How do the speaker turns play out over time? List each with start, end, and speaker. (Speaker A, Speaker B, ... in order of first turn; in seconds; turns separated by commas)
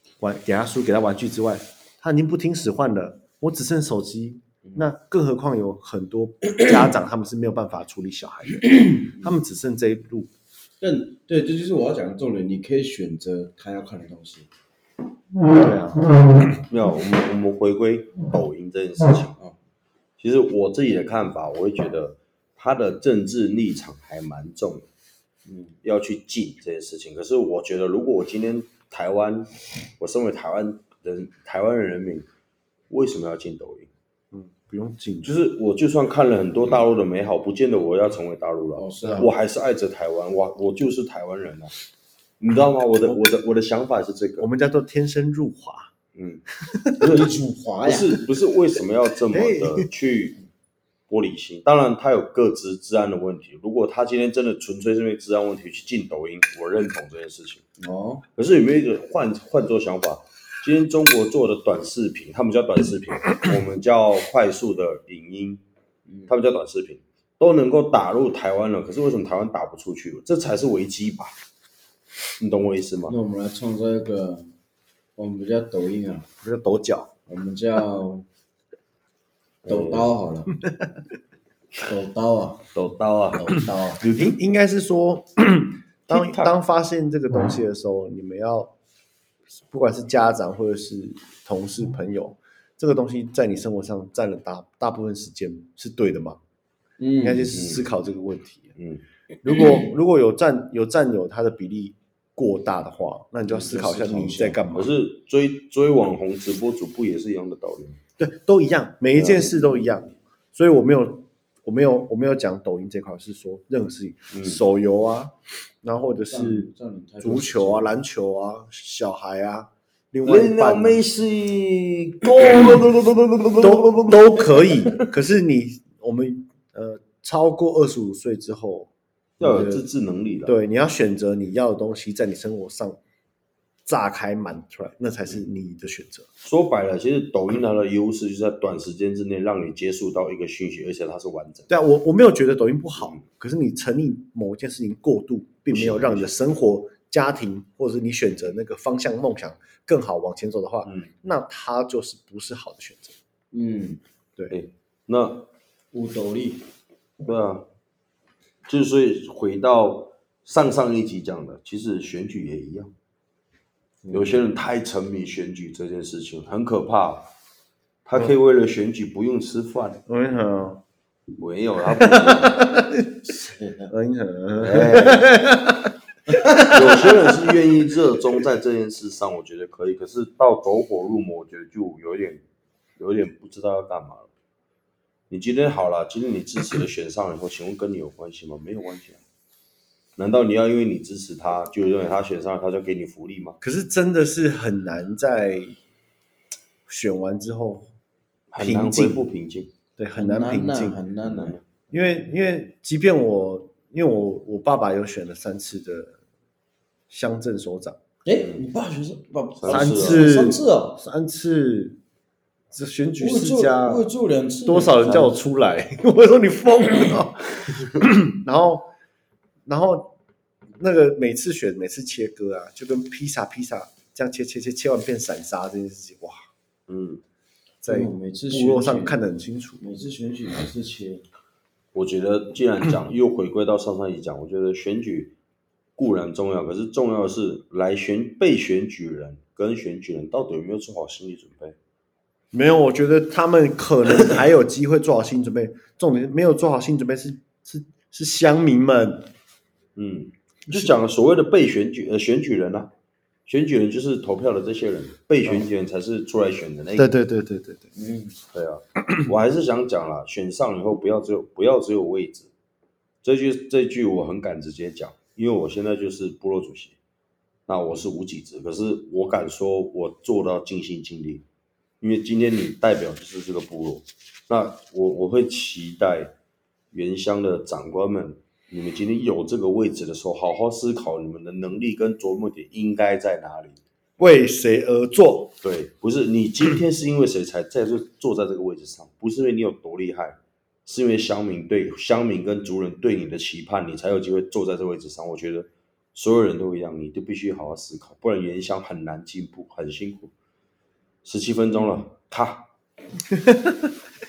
Speaker A: 0.2-10.3, Speaker B: 9.0-9.3, Speaker B: 10.8-14.5, Speaker A: 15.5-16.1, Speaker C: 16.7-19.4, Speaker C: 20.2-24.9, Speaker B: 25.5-25.7, Speaker C: 25.8-32.2, Speaker C: 32.9-33.9, Speaker A: 34.3-35.3, Speaker C: 35.2-41.7, Speaker B: 38.8-39.3, Speaker C: 42.4-44.5, Speaker A: 44.4-45.9, Speaker C: 46.1-46.4, Speaker A: 46.7-47.0, Speaker C: 47.0-50.4, Speaker B: 47.0-48.3, Speaker A: 49.3-49.9, Speaker C: 51.1-57.6, Speaker B: 57.8-58.2, Speaker C: 58.4-65.6, Speaker B: 66.1-66.3, Speaker C: 66.3-71.3, Speaker C: 72.4-73.2, Speaker B: 73.1-74.5, Speaker B: 75.2-76.3, Speaker A: 76.4-77.1, Speaker B: 77.3-78.2, Speaker C: 79.6-80.1, Speaker B: 79.6-80.5, Speaker A: 80.6-81.0, Speaker B: 81.8-82.7, Speaker C: 82.7-84.4, Speaker B: 83.3-84.0, Speaker A: 83.7-88.7, Speaker C: 86.1-86.5, Speaker A: 89.6-96.4, Speaker B: 97.0-97.7, Speaker A: 97.2-98.7, Speaker C: 97.5-97.9, Speaker C: 98.8-99.0, Speaker A: 99.4-104.9, Speaker B: 103.4-104.6, Speaker C: 104.7-108.0, Speaker A: 108.2-116.7, Speaker C: 109.1-109.5, Speaker C: 114.3-114.6, Speaker B: 116.2-118.0, Speaker A: 117.2-121.0, Speaker C: 120.2-125.0, Speaker A: 123.6-129.8, Speaker C: 129.4-130.5, Speaker A: 130.4-133.0, Speaker A: 133.8-136.3, Speaker C: 136.4-141.7, Speaker A: 141.7-153.2, Speaker C: 145.7-146.3, Speaker C: 150.8-151.1, Speaker B: 153.5-154.0, Speaker C: 154.5-155.5, Speaker B: 155.9-156.7, Speaker C: 157.2-157.7, Speaker C: 158.7-162.9, Speaker B: 164.1-164.4, Speaker C: 164.1-167.3, Speaker C: 168.0-170.0, Speaker A: 170.1-170.8, Speaker C: 171.4-172.7, Speaker A: 171.9-173.2, Speaker B: 173.2-173.9, Speaker A: 173.9-177.1, Speaker C: 174.6-175.4, Speaker B: 176.4-176.7, Speaker C: 176.7-182.4, Speaker C: 183.0-184.3, Speaker C: 185.3-189.2, Speaker C: 190.2-193.6, Speaker A: 193.6-195.8, Speaker A: 196.9-197.9, Speaker C: 198.5-199.7, Speaker A: 198.6-199.2, Speaker A: 200.0-201.0, Speaker B: 200.1-201.6, Speaker C: 201.2-201.6, Speaker A: 201.9-206.2, Speaker A: 207.1-208.0, Speaker B: 208.2-211.0, Speaker C: 208.3-208.6, Speaker C: 209.6-210.4, Speaker A: 209.7-212.0, Speaker A: 212.7-214.1, Speaker B: 213.2-215.4, Speaker A: 214.6-218.9, Speaker A: 219.7-220.1, Speaker A: 220.8-226.4, Speaker C: 226.9-227.2, Speaker A: 227.8-229.8, Speaker B: 227.8-229.2, Speaker B: 229.8-231.2, Speaker C: 231.9-235.3, Speaker C: 236.0-241.8, Speaker A: 242.5-249.3, Speaker C: 249.9-252.9, Speaker A: 250.7-250.9, Speaker C: 253.5-257.1, Speaker A: 256.9-257.9, Speaker B: 258.0-258.4, Speaker C: 258.5-262.5, Speaker C: 263.2-267.0, Speaker C: 267.7-271.4, Speaker C: 272.0-276.3, Speaker C: 276.9-283.8, Speaker A: 284.2-285.5, Speaker C: 285.6-300.3, Speaker C: 301.2-302.7, Speaker A: 303.3-303.8